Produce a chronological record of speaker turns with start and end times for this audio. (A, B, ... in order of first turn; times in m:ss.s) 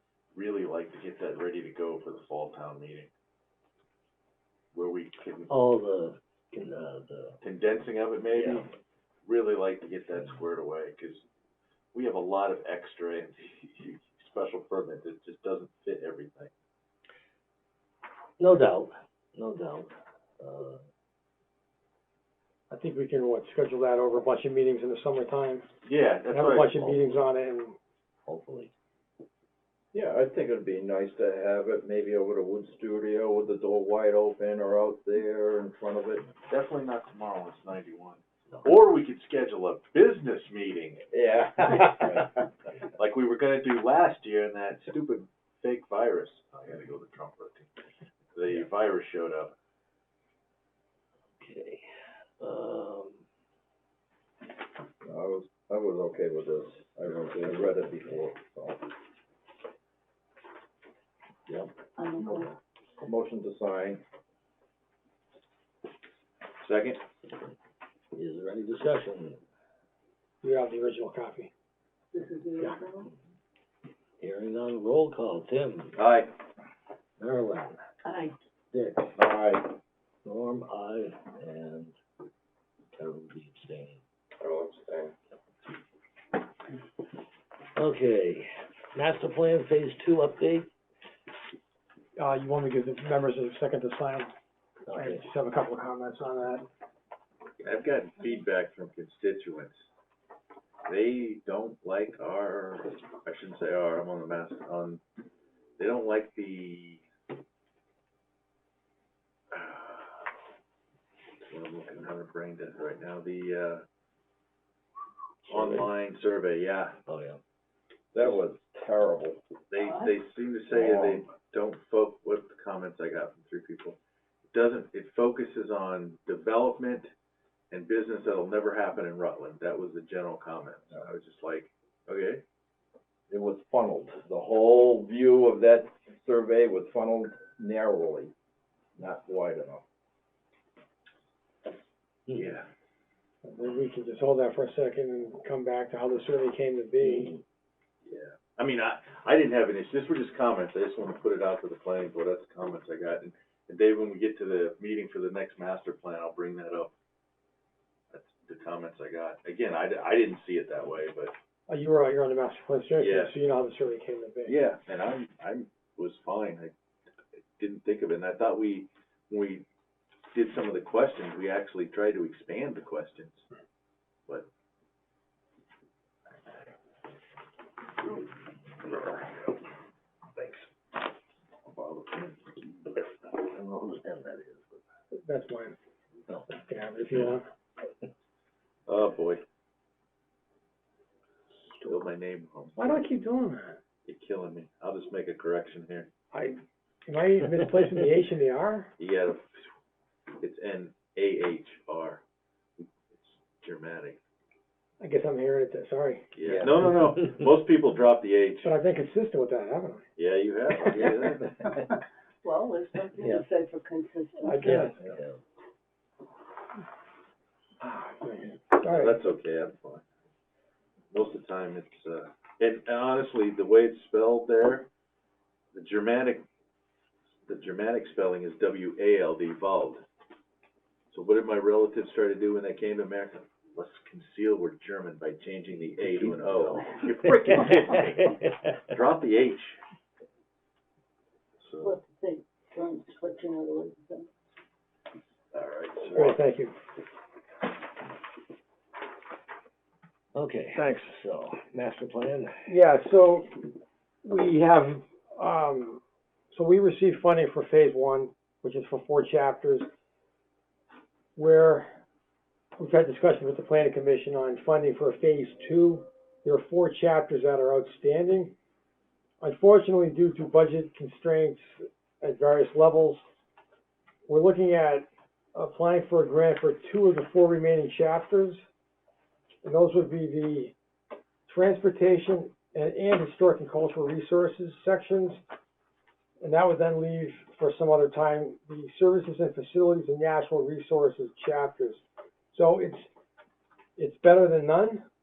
0:00.4-0:03.1 A
0:04.7-0:05.5 A
0:05.5-0:07.4 B
0:07.4-0:08.7 A
0:08.4-0:08.7 B
0:09.3-0:11.2 A
0:11.9-0:16.5 A
0:18.4-0:20.8 B
0:22.7-0:25.6 C
0:25.8-0:26.8 A
0:26.3-0:27.8 C
0:26.8-0:27.3 B
0:28.3-0:28.7 B
0:29.9-0:36.3 D
0:36.5-0:41.1 A
0:41.1-0:42.2 D
0:43.0-0:47.7 A
0:48.4-0:49.6 A
0:51.4-0:51.9 B
0:52.4-0:53.2 B
0:55.0-0:58.9 D
0:57.2-0:58.3 B
1:01.5-1:01.9 B
1:02.0-1:02.5 E
1:03.0-1:04.0 D
1:06.6-1:07.0 A
1:08.1-1:09.4 B
1:10.4-1:11.5 C
1:12.1-1:13.1 E
1:14.2-1:16.0 B
1:16.0-1:16.3 A
1:17.2-1:17.8 B
1:18.0-1:18.4 E
1:18.7-1:19.2 B
1:19.2-1:19.7 D
1:20.2-1:22.0 B
1:22.9-1:24.0 B
1:24.4-1:25.1 D
1:27.8-1:30.7 B
1:32.2-1:34.3 C
1:34.9-1:35.3 B
1:35.0-1:36.7 C
1:37.6-1:39.8 A
1:40.9-1:45.0 A
1:45.8-1:47.0 A
1:49.5-1:50.2 A
1:51.5-1:53.8 A
1:55.5-1:55.9 B
1:55.5-1:57.0 A
1:57.1-1:57.4 B
1:58.1-1:59.4 D
1:59.7-2:04.0 A
1:59.8-2:00.1 E
2:00.7-2:01.2 D
2:04.5-2:07.1 A
2:07.7-2:12.4 A
2:13.3-2:18.3 D
2:19.0-2:19.8 D
2:22.3-2:22.7 A
2:23.4-2:27.3 C
2:27.0-2:27.4 B
2:28.0-2:36.9 A
2:38.1-2:41.3 A
2:41.7-2:44.6 C
2:43.0-2:43.4 A
2:44.5-2:46.7 A
2:47.6-2:49.6 A
2:50.3-2:53.5 A
2:58.9-2:59.3 A
3:01.7-3:02.9 A
3:03.3-3:04.8 B
3:05.1-3:05.8 C
3:06.3-3:06.6 B
3:06.6-3:07.4 C
3:08.9-3:09.4 A
3:11.8-3:13.0 A
3:12.8-3:13.8 C
3:14.1-3:16.1 A
3:16.3-3:18.9 C
3:19.0-3:19.6 A
3:20.4-3:22.2 A
3:22.8-3:24.2 A
3:25.0-3:26.3 C
3:26.4-3:28.7 A
3:26.5-3:26.8 D
3:26.5-3:27.1 B
3:28.6-3:30.0 C
3:30.2-3:31.6 A
3:32.4-3:34.9 E
3:34.4-3:34.9 C
3:34.6-3:35.4 B
3:37.8-3:39.2 C
3:38.8-3:40.0 A
3:41.1-3:44.9 A
3:45.7-3:46.4 A
3:47.5-3:50.0 A
3:51.1-3:59.8 A
3:56.0-3:57.3 B
4:01.6-4:02.0 A
4:01.8-4:04.3 E
4:05.5-4:06.4 A
4:06.2-4:06.7 C
4:10.3-4:12.8 B
4:10.8-4:11.1 C
4:12.7-4:13.7 C
4:14.2-4:19.9 C
4:21.4-4:22.0 C
4:22.8-4:28.6 C
4:29.4-4:33.2 C
4:34.3-4:38.6 C
4:39.6-4:40.8 C
4:41.5-4:45.4 C
4:46.4-4:53.1 C
4:54.0-4:55.0 C